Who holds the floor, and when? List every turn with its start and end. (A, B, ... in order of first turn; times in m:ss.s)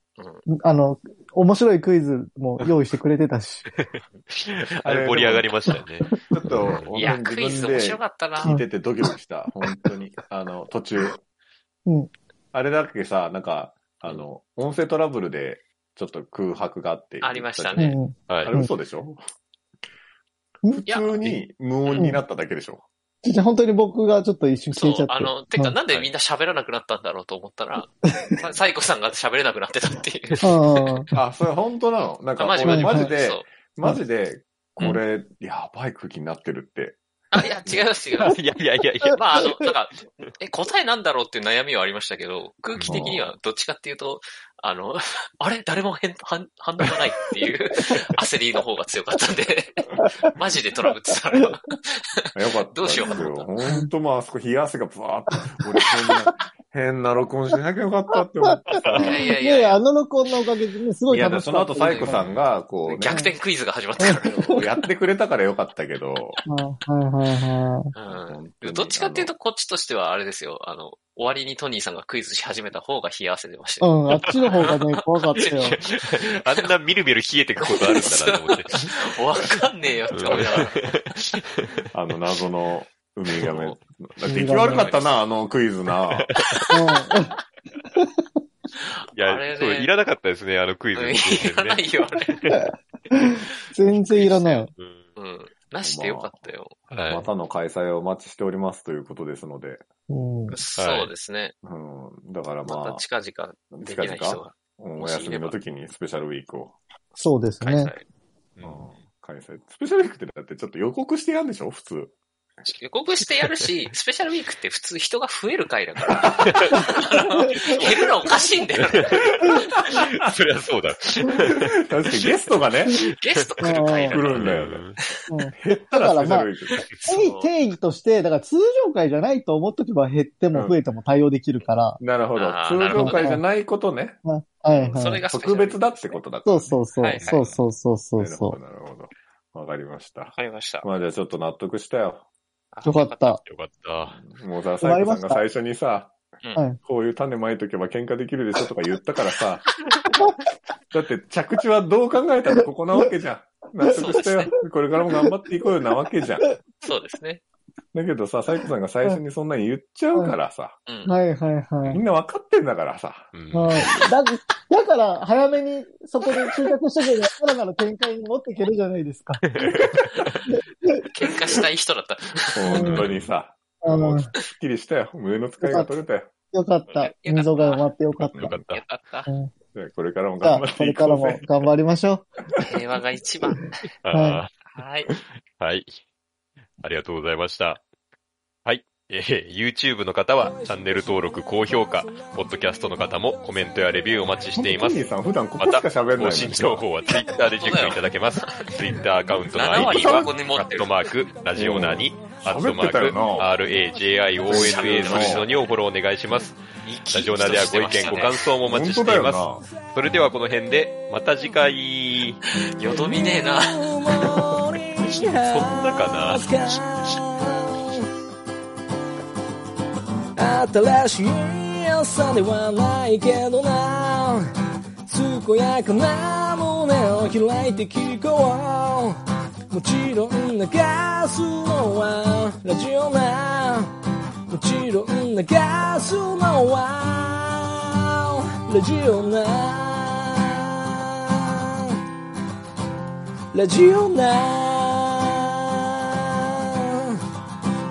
0:00.2-0:00.5 A
0:00.5-0:03.7 B
0:03.8-0:07.0 C
0:04.8-0:05.5 D
0:06.3-0:11.2 D
0:07.0-0:08.6 A
0:12.5-0:19.2 D
0:17.2-0:18.0 A
0:17.8-0:18.7 B
0:20.7-0:22.8 D
0:20.9-0:21.3 A
0:21.8-0:22.1 A
0:23.2-0:25.8 B
0:24.7-0:31.0 A
0:30.4-0:31.1 B
0:31.1-0:37.0 D
0:32.4-0:33.5 A
0:32.7-0:33.1 B
0:37.3-0:38.4 A
0:37.6-0:37.9 D
0:38.2-0:39.2 C
0:39.1-0:53.5 A
0:42.8-0:43.1 C
0:42.9-0:43.3 D
0:50.0-0:50.3 B
0:52.3-0:59.2 D
0:58.4-1:02.2 B
0:58.7-0:59.0 C
0:59.0-0:59.8 A
1:01.1-1:03.2 D
1:01.9-1:04.7 A
1:03.1-1:03.3 B
1:04.0-1:04.6 B
1:04.1-1:06.4 D
1:06.5-1:07.9 B
1:08.0-1:14.8 A
1:08.0-1:09.3 D
1:13.8-1:15.8 B
1:15.3-1:16.7 A
1:15.6-1:19.6 C
1:17.6-1:20.9 A
1:20.1-1:21.9 C
1:21.9-1:26.3 D
1:24.3-1:24.9 B
1:24.7-1:25.1 A
1:26.2-1:26.6 C
1:26.7-1:27.4 B
1:28.8-1:29.9 A
1:29.2-1:32.6 C
1:30.9-1:32.4 A
1:32.5-1:34.7 B
1:34.2-1:34.6 A
1:34.7-1:35.0 C
1:35.2-1:36.8 A
1:35.8-1:36.5 D
1:36.9-1:37.3 C
1:37.1-1:39.8 D
1:40.1-1:40.6 B
1:40.5-1:41.5 A
1:40.8-1:41.1 C
1:41.6-1:43.0 D
1:42.7-1:45.6 A
1:43.7-1:46.8 D
1:47.2-1:47.9 B
1:47.6-1:48.0 A
1:48.6-1:49.0 C
1:48.6-1:52.1 D
1:52.6-1:59.6 A
1:56.5-1:56.8 C
1:58.8-2:03.5 C
1:59.4-2:00.2 D
2:01.4-2:03.1 D
2:03.2-2:05.1 A
2:03.6-2:04.2 B
2:04.1-2:04.9 D
2:04.1-2:05.0 C
2:05.3-2:06.5 B
2:05.6-2:06.9 D
2:07.0-2:12.0 B
2:07.1-2:07.5 A
2:12.0-2:14.2 D
2:12.4-2:13.4 A
2:12.9-2:13.4 B
2:14.2-2:15.2 B
2:14.7-2:16.2 A
2:15.3-2:17.5 D
2:16.4-2:18.6 B
2:17.0-2:17.5 A
2:18.2-2:22.3 D
2:20.4-2:20.9 A
2:22.7-2:23.4 A
2:22.8-2:23.4 B
2:23.4-2:24.2 C
2:24.1-2:26.2 D
2:24.8-2:25.4 B
2:26.8-2:29.7 D
2:30.9-2:36.5 D
2:33.9-2:34.5 A
2:36.8-2:37.4 A
2:37.9-2:40.8 D
2:40.9-2:41.1 A
2:41.1-2:42.0 B
2:41.9-2:43.3 D
2:43.3-2:44.0 C
2:43.5-2:49.4 B
2:49.4-2:50.4 C
2:49.6-2:50.3 D
2:50.5-2:51.0 B
2:51.1-2:52.9 A
2:52.5-2:56.3 D
2:52.7-2:53.0 B
2:52.8-2:53.3 C
2:53.8-2:54.3 B
2:55.6-2:56.0 B
2:56.5-2:58.6 B
2:56.9-2:57.9 A
2:58.2-2:58.8 C
2:58.5-2:59.3 A
2:59.3-2:59.5 B
2:59.7-3:01.5 D
3:00.4-3:02.3 B
3:02.7-3:03.8 A
3:04.0-3:04.5 C
3:04.1-3:04.4 B
3:04.7-3:05.1 A
3:05.6-3:06.0 C
3:06.8-3:07.8 C
3:08.6-3:15.0 C
3:14.6-3:16.9 D
3:15.6-3:32.4 C
3:17.6-3:18.7 A
3:19.5-3:21.1 A
3:19.7-3:20.3 D
3:21.6-3:23.5 D
3:24.5-3:25.5 A
3:24.5-3:25.5 D
3:26.8-3:28.5 A
3:28.6-3:29.7 D
3:32.8-3:34.0 A
3:32.9-3:38.1 E
3:35.5-3:37.2 C
3:40.4-3:44.5 E
3:45.1-3:49.2 E
3:49.7-3:53.9 E
3:54.5-4:02.0 E
4:03.5-4:07.2 E